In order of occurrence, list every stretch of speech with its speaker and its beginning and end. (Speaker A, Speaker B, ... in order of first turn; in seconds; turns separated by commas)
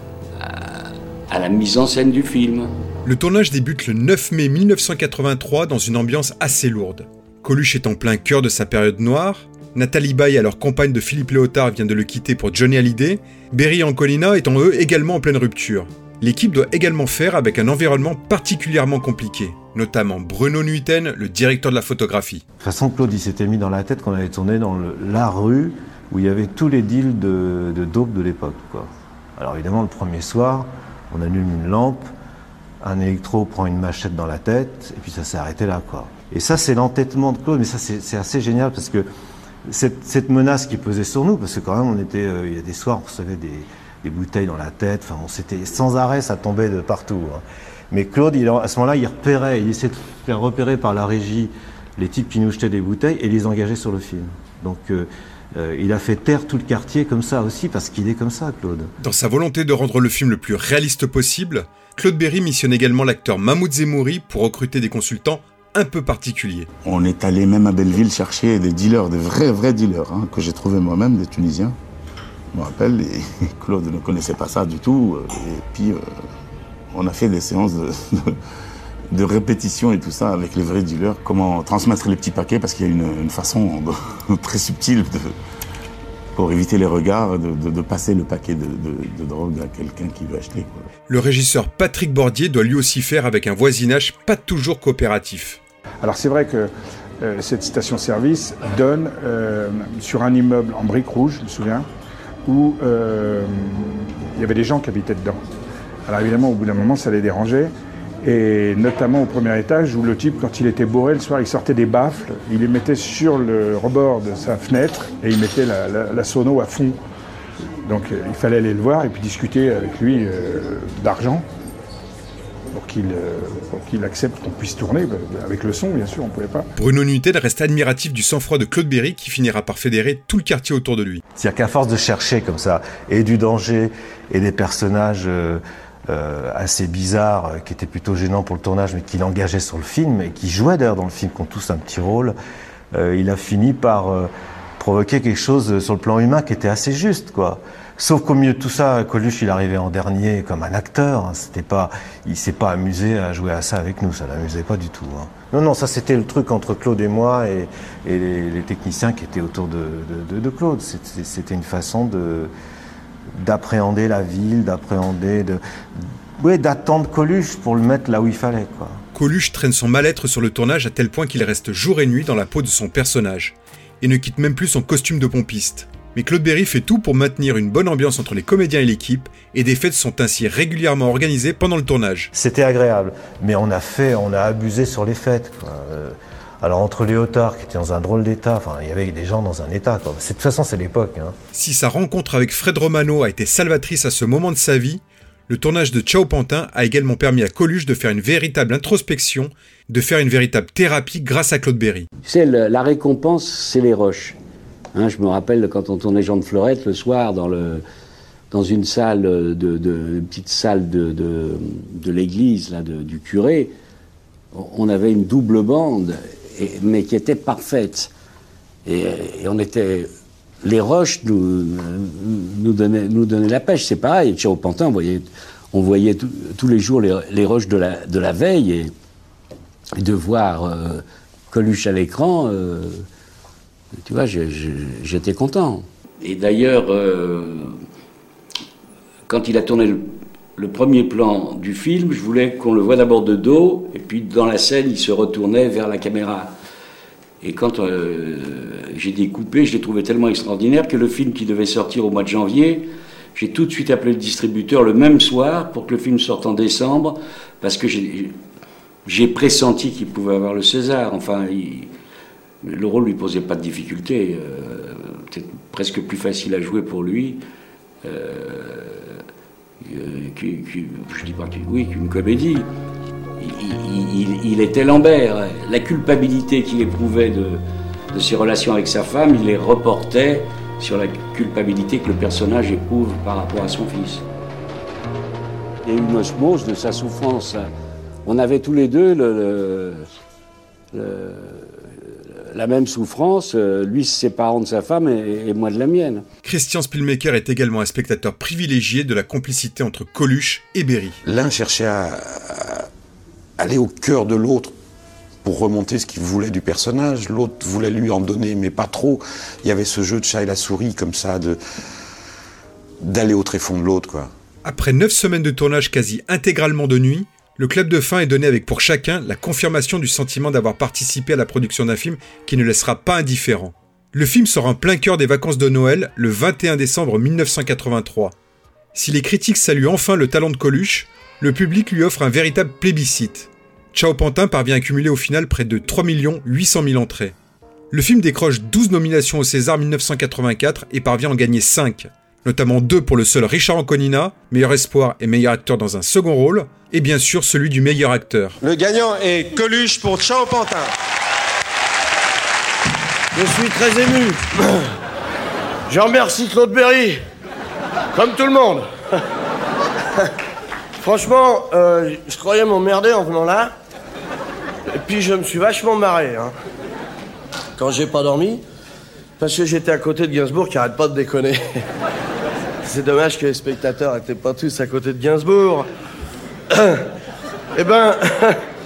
Speaker A: 0.4-2.7, Speaker B: 3.0-22.4, Speaker C: 22.6-32.1, Speaker C: 32.8-39.0, Speaker C: 39.6-58.9, Speaker B: 59.0-66.7, Speaker D: 66.8-71.8, Speaker D: 72.5-76.0, Speaker D: 76.9-78.4, Speaker D: 79.1-85.3, Speaker D: 86.3-90.9, Speaker B: 91.1-95.6, Speaker E: 96.0-96.7, Speaker E: 97.2-101.9, Speaker E: 102.5-105.4, Speaker E: 106.1-107.7, Speaker E: 108.2-117.0, Speaker E: 117.8-121.5, Speaker E: 122.7-126.7, Speaker B: 126.8-131.2, Speaker C: 131.3-142.3, Speaker C: 142.9-162.5, Speaker C: 163.4-169.0, Speaker B: 169.1-182.3, Speaker C: 182.3-191.3, Speaker B: 191.5-202.1, Speaker A: 202.2-204.4, Speaker A: 204.9-207.8, Speaker A: 208.5-213.7, Speaker A: 214.5-218.1, Speaker A: 218.8-220.1, Speaker A: 220.6-228.9, Speaker A: 230.0-233.1, Speaker A: 234.0-237.7, Speaker A: 239.3-246.5, Speaker A: 247.4-258.4, Speaker A: 259.1-261.9, Speaker A: 262.6-267.4, Speaker A: 268.0-269.2, Speaker A: 269.8-272.7, Speaker A: 273.4-284.2, Speaker A: 285.8-287.7, Speaker A: 288.2-290.1, Speaker A: 290.9-291.7, Speaker A: 292.5-296.2, Speaker B: 296.4-301.2, Speaker F: 301.2-302.9, Speaker F: 303.6-304.8, Speaker F: 305.4-311.6, Speaker F: 313.0-314.3, Speaker B: 314.6-328.3, Speaker B: 328.9-337.3, Speaker B: 337.9-348.6, Speaker G: 348.8-350.8, Speaker H: 353.4-354.3, Speaker H: 355.9-357.1, Speaker H: 358.1-358.8, Speaker H: 361.0-363.7, Speaker H: 365.1-366.5, Speaker H: 367.8-368.6, Speaker H: 369.4-371.5, Speaker H: 372.9-375.8